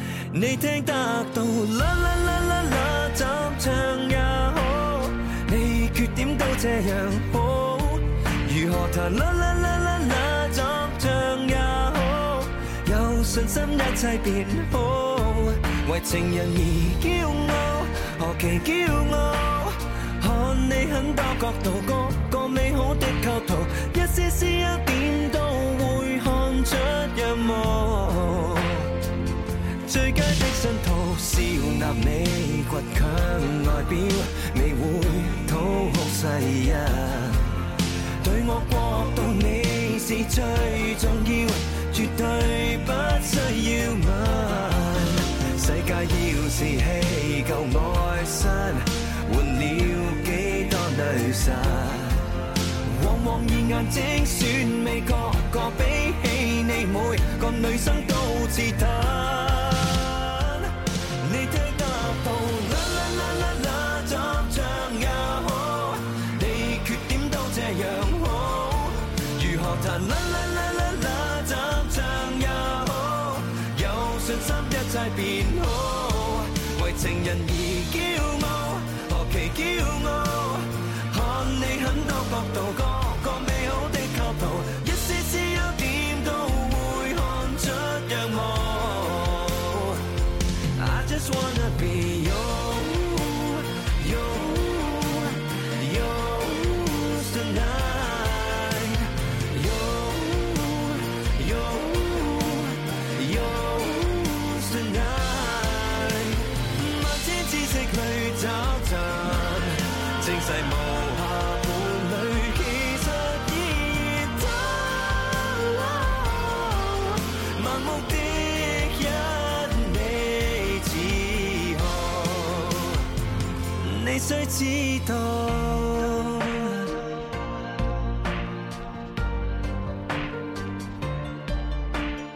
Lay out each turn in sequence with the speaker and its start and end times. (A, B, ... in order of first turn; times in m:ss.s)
0:00.3-0:28.9 A
0:29.8-0:37.5 A
0:38.2-0:52.2 A
0:52.8-1:30.0 A
1:30.7-2:03.0 A
2:03.8-2:06.9 A